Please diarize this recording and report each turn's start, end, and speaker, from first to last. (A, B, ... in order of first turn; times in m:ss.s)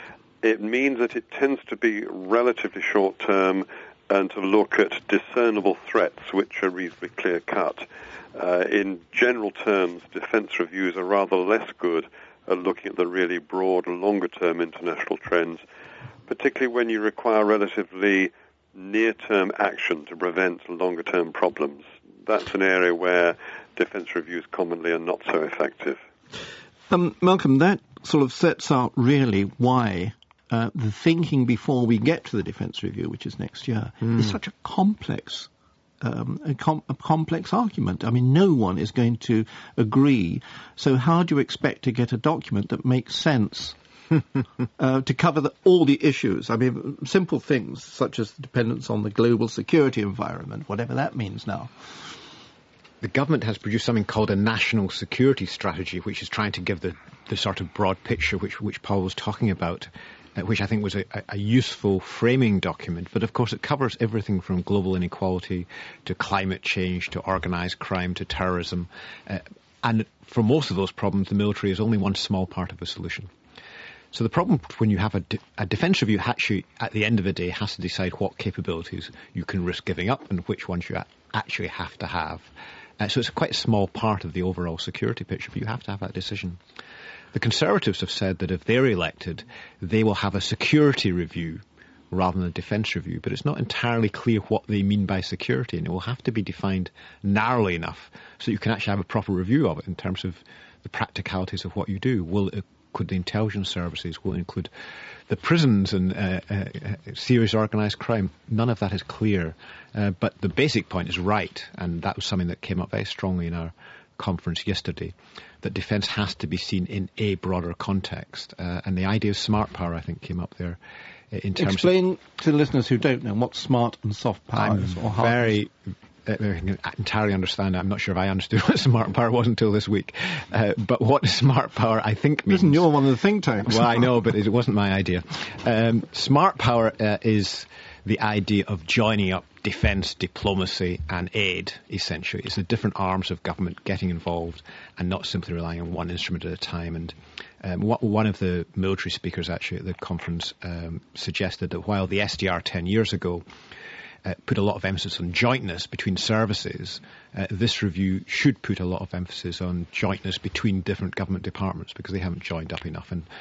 0:00.4-0:15.6 A
0:16.3-0:26.0 A
0:26.9-0:35.5 B
0:36.0-0:43.8 B
0:44.8-0:51.9 B
0:53.0-1:13.3 C
1:14.1-1:26.6 C
1:27.3-1:44.7 C
1:45.3-2:00.8 C
2:01.3-2:02.0 C
2:01.6-2:05.6 B
2:04.6-2:12.9 C
2:12.5-2:13.9 B
2:13.6-2:33.4 C
2:34.2-2:43.3 C